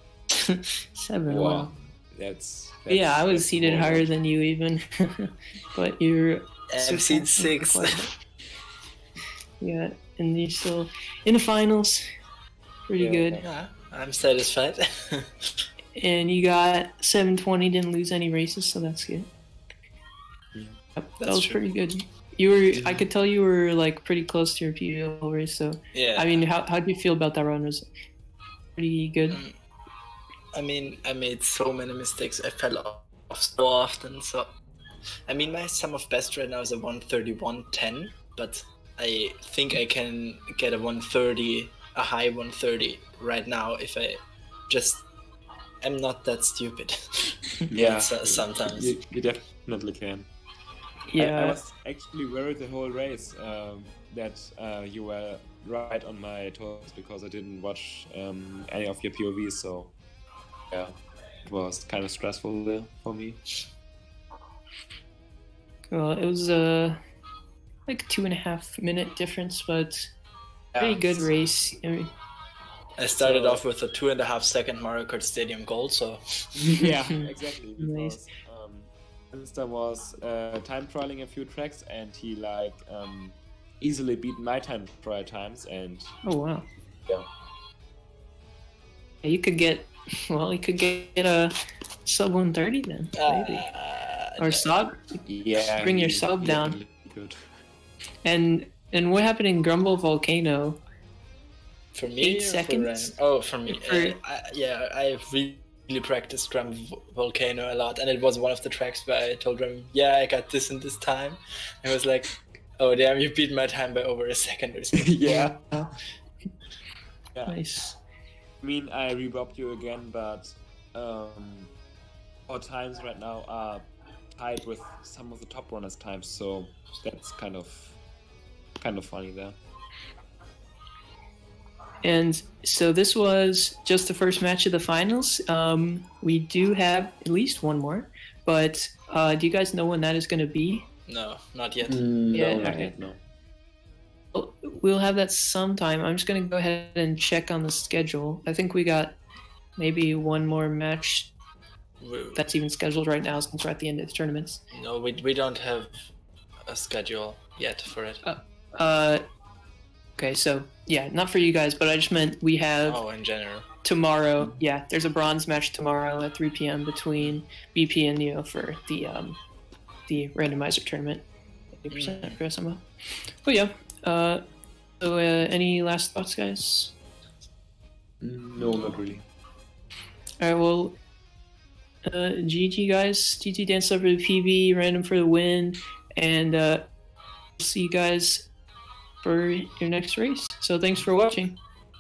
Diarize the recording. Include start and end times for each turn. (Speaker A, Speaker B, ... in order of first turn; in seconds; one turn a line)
Speaker A: 0.3-1.7
Speaker B: 1.3-4.1
Speaker A: 2.9-8.1
Speaker C: 6.7-8.0
Speaker A: 9.6-12.0
Speaker A: 12.9-13.4
Speaker B: 13.0-13.4
Speaker C: 13.4-15.5
Speaker A: 16.0-19.3
Speaker A: 21.0-27.9
Speaker C: 21.2-21.6
Speaker B: 22.7-23.1
Speaker C: 25.9-26.5
Speaker A: 28.8-29.4
Speaker C: 29.3-29.6
Speaker C: 30.6-34.5
Speaker C: 35.3-45.0
Speaker C: 45.8-49.0
Speaker B: 47.7-50.3
Speaker A: 51.1-51.6
Speaker B: 51.2-59.9
Speaker B: 60.7-63.4
Speaker A: 65.9-67.0
Speaker A: 67.9-70.1
Speaker B: 70.7-71.3
Speaker A: 70.8-72.1
Speaker C: 73.0-76.2
Speaker B: 73.2-73.6
Speaker B: 76.6-86.2
Speaker A: 76.8-78.2
Speaker A: 86.2-86.7
Speaker A: 89.2-93.7
Speaker C: 93.2-94.7
Speaker A: 94.4-95.0
Speaker B: 95.2-97.4
Speaker A: 95.8-96.8
Speaker A: 98.2-100.8
Speaker C: 101.9-115.2
Speaker A: 102.2-104.2
Speaker B: 115.0-115.6
Speaker A: 115.2-115.9
Speaker B: 117.3-117.6
Speaker A: 117.5-118.0
Speaker B: 118.6-121.7
Speaker B: 122.5-128.0
Speaker B: 128.8-129.6
Speaker A: 132.0-140.9
Speaker C: 141.1-142.0
Speaker B: 141.8-143.2
Speaker A: 142.3-142.9
Speaker A: 144.3-149.2
Speaker A: 149.8-151.3
Speaker C: 152.0-152.4
Speaker A: 152.3-154.6
Speaker C: 154.7-155.9
Speaker C: 156.7-158.2
Speaker A: 158.2-159.2
Speaker A: 160.2-163.0
Speaker C: 162.9-163.7
Speaker A: 163.8-169.4
Speaker A: 170.1-172.9
Speaker C: 171.9-172.4
Speaker A: 173.4-174.4
Speaker A: 175.0-177.0
Speaker B: 178.2-179.2
Speaker A: 180.4-181.0
Speaker A: 182.1-186.9
Speaker A: 187.6-188.5
Speaker A: 189.2-191.6